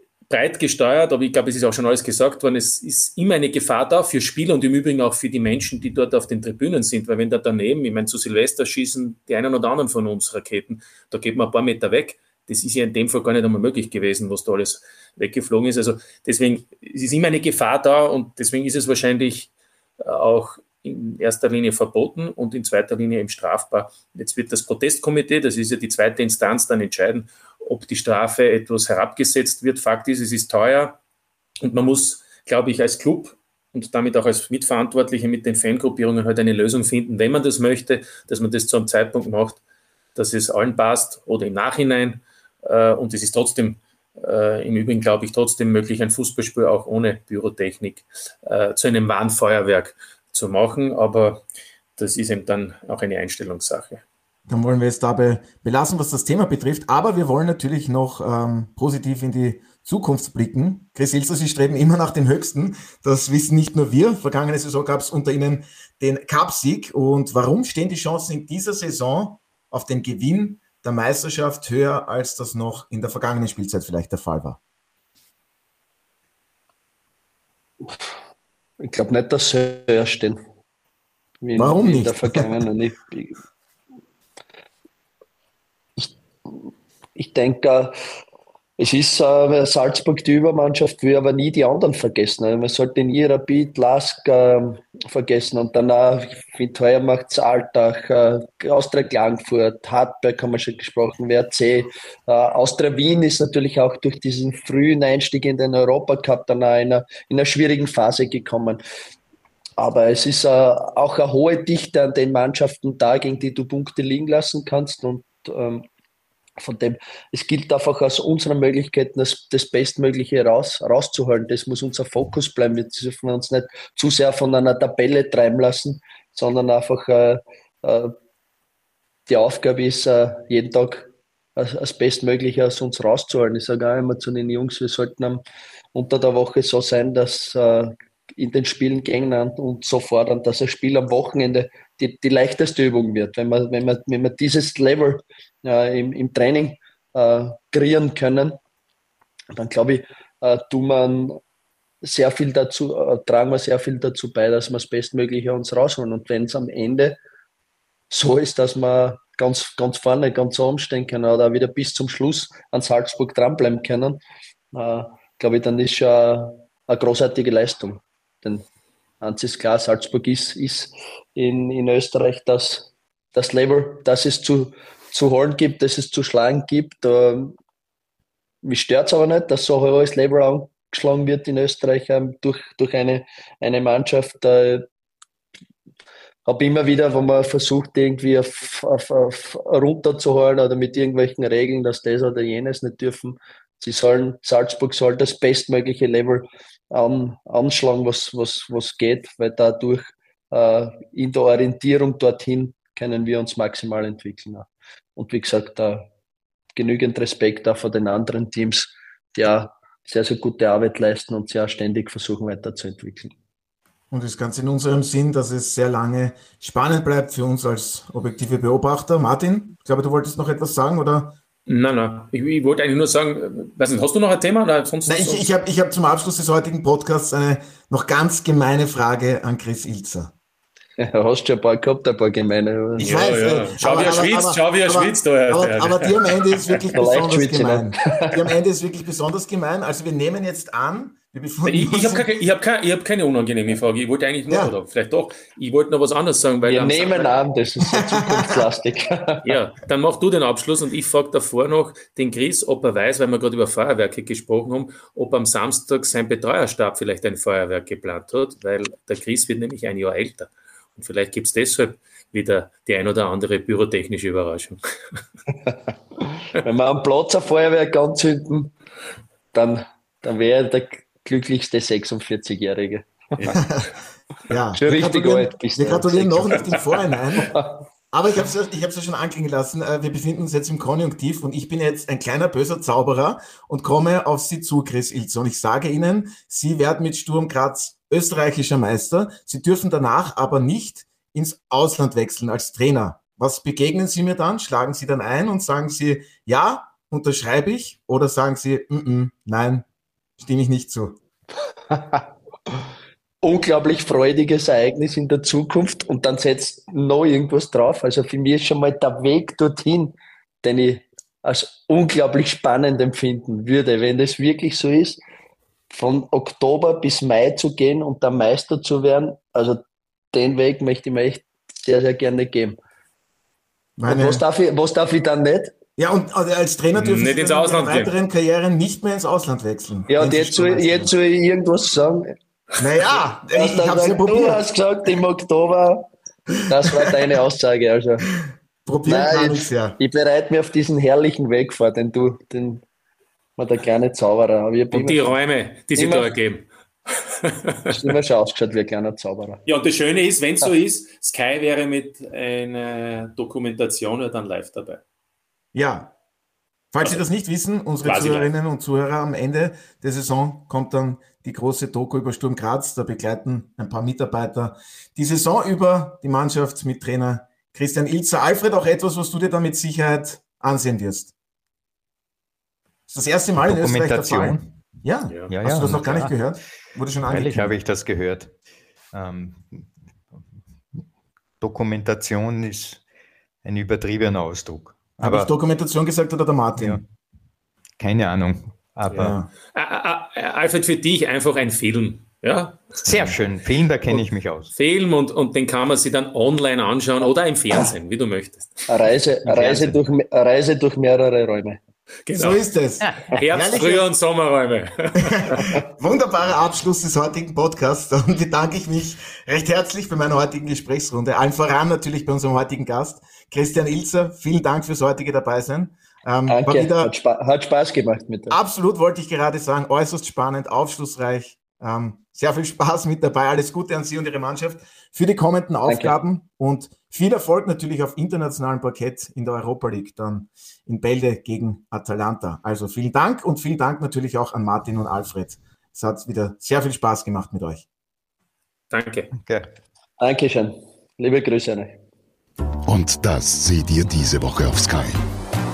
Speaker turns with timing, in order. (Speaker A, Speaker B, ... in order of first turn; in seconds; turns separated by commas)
Speaker A: 0.3-31.0, Speaker A: 31.6-39.6, Speaker A: 40.1-51.4, Speaker A: 52.0-54.0, Speaker B: 54.5-74.6, Speaker C: 78.8-80.4, Speaker C: 81.4-83.4, Speaker B: 81.6-82.6, Speaker C: 87.2-88.0, Speaker C: 88.8-108.8, Speaker C: 109.8-115.9, Speaker C: 116.6-128.1, Speaker C: 129.3-135.4, Speaker C: 135.9-148.6, Speaker C: 149.5-151.4, Speaker C: 152.0-157.2, Speaker C: 158.1-164.2, Speaker C: 164.7-168.7, Speaker C: 169.2-177.6, Speaker C: 178.6-184.8, Speaker C: 186.5-206.1, Speaker C: 206.8-213.3, Speaker B: 214.1-221.4, Speaker A: 221.7-225.5, Speaker B: 225.1-230.3, Speaker C: 231.0-233.1, Speaker B: 233.0-242.3, Speaker A: 233.0-236.9, Speaker C: 236.9-238.5, Speaker A: 241.6-247.3, Speaker C: 246.6-249.4, Speaker B: 247.9-248.6, Speaker A: 249.4-265.2, Speaker C: 265.7-268.7, Speaker C: 269.5-273.6, Speaker B: 273.5-273.9, Speaker B: 274.5-277.5, Speaker C: 274.7-276.6, Speaker C: 277.4-277.8, Speaker B: 278.1-299.9, Speaker B: 300.4-301.2, Speaker C: 303.4-315.2, Speaker C: 315.9-319.8, Speaker C: 320.3-322.8, Speaker B: 324.0-324.4, Speaker C: 324.1-325.7, Speaker B: 326.0-331.1, Speaker A: 326.9-328.1, Speaker C: 330.1-332.4, Speaker B: 332.8-334.6, Speaker C: 333.5-336.1, Speaker C: 336.7-338.2, Speaker B: 338.9-340.0, Speaker C: 339.1-342.8, Speaker C: 343.6-345.4, Speaker A: 344.9-346.7, Speaker C: 346.0-346.3, Speaker A: 347.4-348.1, Speaker C: 347.9-349.6, Speaker A: 349.7-355.0, Speaker B: 355.7-356.1, Speaker B: 356.9-371.3, Speaker A: 358.0-358.5, Speaker B: 373.1-377.8, Speaker D: 373.7-374.6, Speaker D: 375.5-376.4, Speaker D: 377.3-378.5, Speaker D: 379.1-379.9, Speaker D: 381.6-383.0, Speaker D: 383.6-385.5, Speaker B: 385.2-387.0, Speaker D: 386.8-387.0, Speaker D: 388.0-389.4, Speaker A: 389.1-393.1, Speaker B: 389.2-389.5, Speaker D: 393.0-394.7, Speaker A: 394.1-400.0, Speaker C: 398.9-401.8, Speaker A: 402.3-402.6, Speaker B: 402.3-404.1, Speaker A: 403.2-405.7, Speaker B: 405.2-417.1, Speaker C: 416.5-418.6, Speaker B: 418.5-437.8, Speaker C: 425.9-426.1, Speaker A: 438.9-439.3, Speaker D: 439.4-439.7, Speaker C: 440.2-442.0, Speaker E: 442.9-445.2